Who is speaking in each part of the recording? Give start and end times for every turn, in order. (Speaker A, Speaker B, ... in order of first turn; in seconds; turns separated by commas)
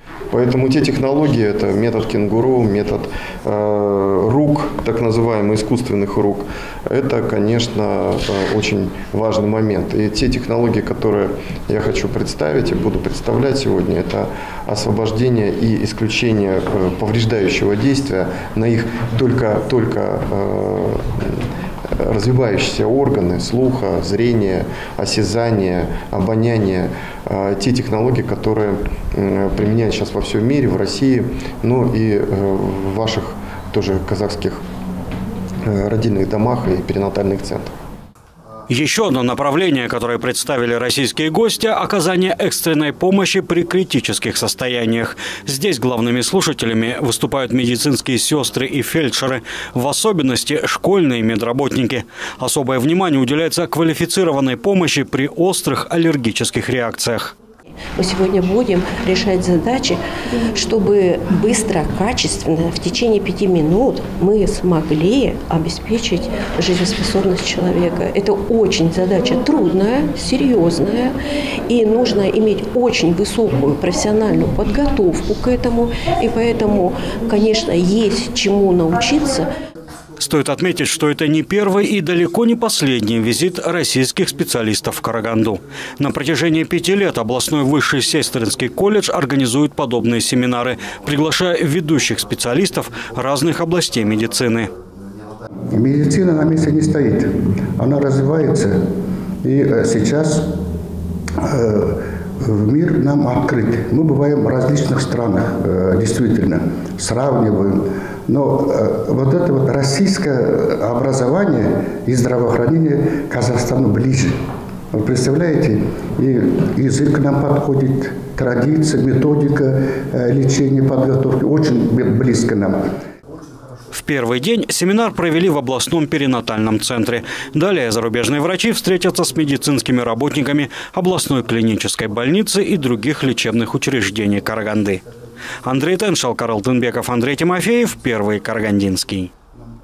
Speaker A: 0.3-21.4, Speaker A: 22.0-34.6, Speaker A: 35.6-37.7, Speaker B: 38.7-57.3, Speaker C: 58.0-60.0, Speaker C: 60.5-71.2, Speaker C: 71.7-79.5, Speaker B: 80.2-94.7, Speaker D: 95.7-98.8, Speaker D: 99.4-100.5, Speaker D: 101.4-114.3, Speaker D: 114.9-122.8, Speaker B: 123.9-135.0, Speaker B: 135.6-139.3